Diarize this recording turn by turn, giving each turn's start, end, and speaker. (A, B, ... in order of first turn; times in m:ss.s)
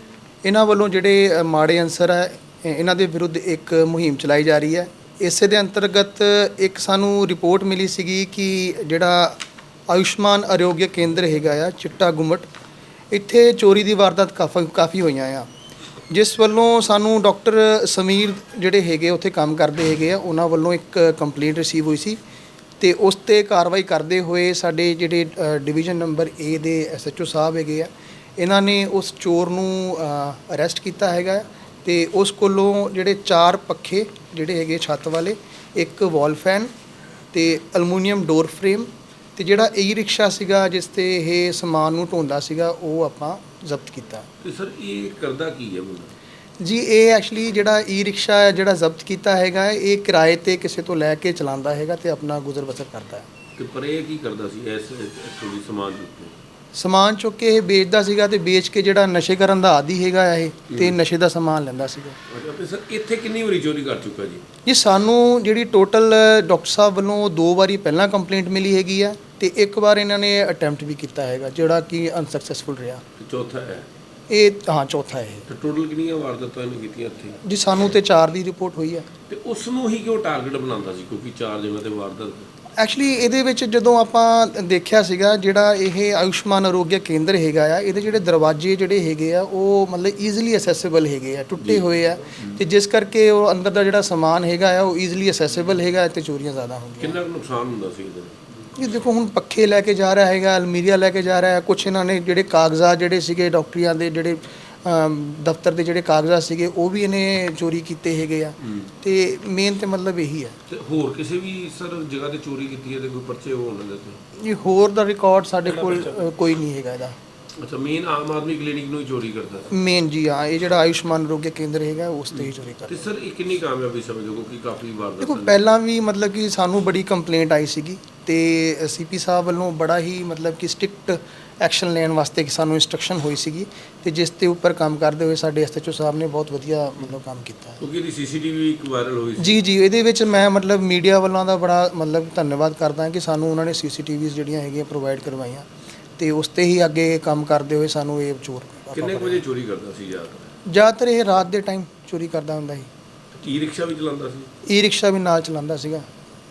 0:00.4-0:12.5 A
0:13.1-0:15.5 A
0:16.1-0:22.2 A
0:22.8-0:36.7 A
0:37.3-0:44.3 A
0:44.4-0:46.1 B
0:46.6-0:53.3 A
0:53.6-0:56.4 B
0:56.7-1:02.2 A
1:02.3-1:04.4 B
1:04.6-1:13.0 A
1:13.2-1:13.9 B
1:14.3-1:15.5 A
1:15.5-1:17.4 B
1:17.4-1:19.1 A
1:19.3-1:22.5 B
1:22.8-1:37.2 A
1:31.6-1:32.6 B
1:37.0-1:38.5 B
1:38.8-1:50.6 A
1:48.6-1:48.9 B
1:50.7-1:54.2 B
1:54.4-1:57.2 A
1:55.7-1:56.2 B
1:57.6-1:59.7 B
1:59.7-2:03.1 A
2:02.3-2:05.6 B
2:05.2-2:17.8 A
2:17.8-2:19.6 B
2:19.4-2:25.7 A
2:26.2-2:29.4 A
2:28.9-2:30.5 B
2:30.6-2:32.9 A
2:33.3-2:34.5 B
2:34.6-2:36.1 A